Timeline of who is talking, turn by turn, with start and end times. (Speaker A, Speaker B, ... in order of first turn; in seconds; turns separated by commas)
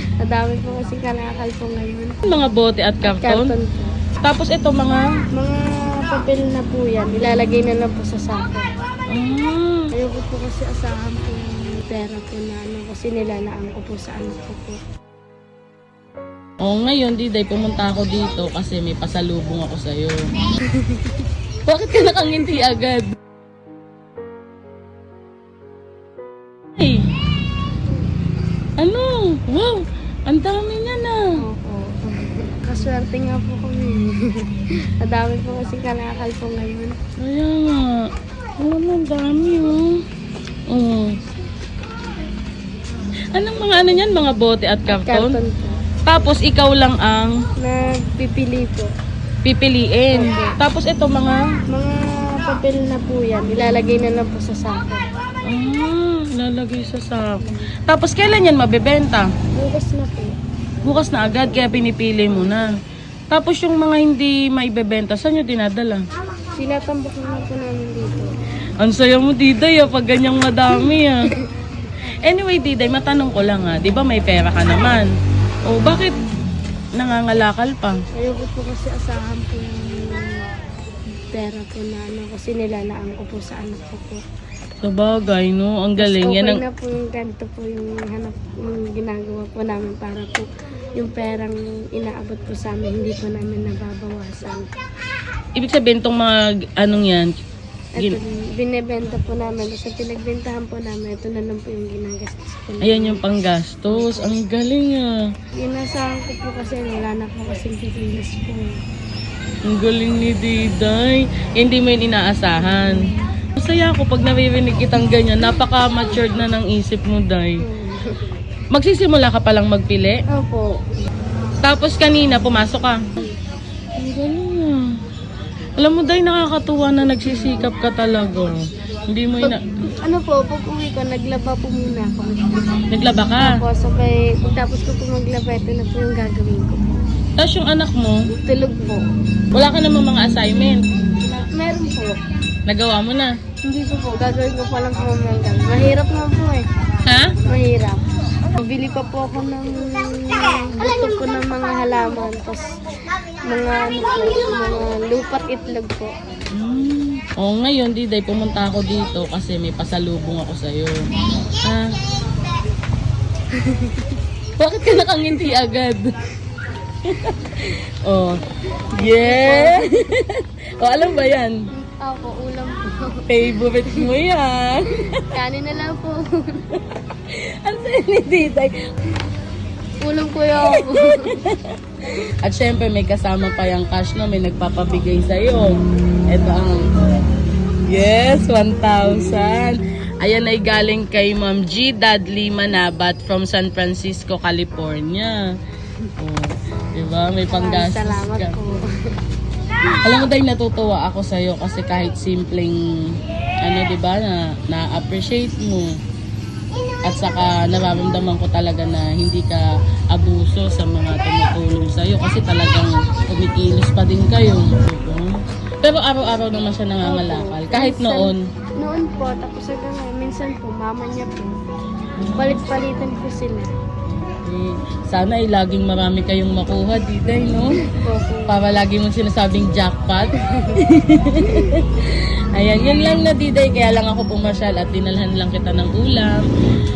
Speaker A: 0.2-2.1, Speaker B: 2.2-3.5, Speaker A: 3.0-3.9, Speaker B: 4.2-5.0, Speaker A: 5.3-8.7, Speaker B: 9.1-9.9, Speaker A: 9.9-14.8, Speaker B: 16.6-20.3, Speaker A: 20.7-21.2, Speaker B: 21.7-23.1, Speaker B: 26.8-27.1, Speaker B: 28.8-31.2, Speaker A: 31.4-34.4, Speaker A: 35.0-36.9, Speaker B: 37.2-38.1, Speaker B: 38.6-40.0, Speaker B: 40.7-41.1, Speaker B: 43.3-45.4, Speaker A: 44.9-45.8, Speaker B: 46.1-47.3, Speaker A: 47.6-48.9, Speaker B: 49.4-51.4, Speaker A: 50.1-50.5, Speaker A: 51.7-55.0, Speaker B: 55.5-59.3, Speaker A: 59.5-60.3, Speaker B: 60.8-62.7, Speaker A: 62.3-62.7, Speaker B: 63.3-66.0, Speaker A: 66.6-68.3, Speaker B: 68.8-71.3, Speaker B: 72.2-75.1, Speaker B: 75.7-76.1, Speaker B: 77.0-78.0, Speaker A: 78.2-80.2, Speaker A: 81.3-84.2, Speaker B: 84.8-86.6, Speaker A: 86.0-94.7, Speaker B: 95.5-97.3, Speaker A: 98.0-103.2, Speaker B: 102.8-105.1, Speaker A: 103.9-104.4, Speaker A: 105.5-108.7, Speaker B: 109.7-113.0, Speaker B: 113.5-117.6, Speaker A: 117.6-118.2, Speaker B: 118.7-120.2, Speaker A: 120.3-120.7, Speaker B: 121.6-123.0, Speaker B: 124.0-124.8, Speaker B: 125.8-128.6, Speaker B: 129.1-129.6, Speaker A: 129.4-132.5, Speaker B: 132.9-133.6, Speaker A: 133.4-137.0, Speaker B: 137.4-138.2, Speaker A: 138.4-139.0, Speaker B: 139.5-140.8, Speaker A: 141.2-142.2, Speaker B: 142.7-143.3, Speaker A: 143.6-146.6, Speaker B: 147.1-147.3, Speaker A: 147.4-148.0, Speaker A: 148.6-152.6, Speaker A: 153.5-156.1, Speaker B: 156.5-160.9, Speaker B: 161.6-161.9, Speaker A: 163.6-164.2, Speaker B: 164.6-166.1, Speaker B: 167.0-168.4, Speaker A: 168.9-170.1, Speaker B: 168.9-171.6, Speaker A: 171.8-173.2, Speaker B: 173.3-175.2, Speaker A: 175.2-176.6, Speaker B: 176.7-178.7, Speaker A: 180.0-181.4, Speaker B: 180.7-181.7, Speaker B: 182.4-185.8, Speaker B: 186.3-187.2, Speaker B: 187.9-195.4, Speaker B: 196.2-198.6, Speaker A: 197.5-198.8, Speaker B: 200.0-202.8, Speaker B: 203.6-205.9, Speaker B: 207.0-218.4, Speaker A: 217.0-221.5, Speaker B: 222.2-222.6, Speaker A: 222.4-223.7, Speaker B: 224.1-227.7, Speaker A: 227.8-228.6, Speaker B: 228.5-236.4, Speaker A: 230.4-230.8, Speaker A: 231.4-231.7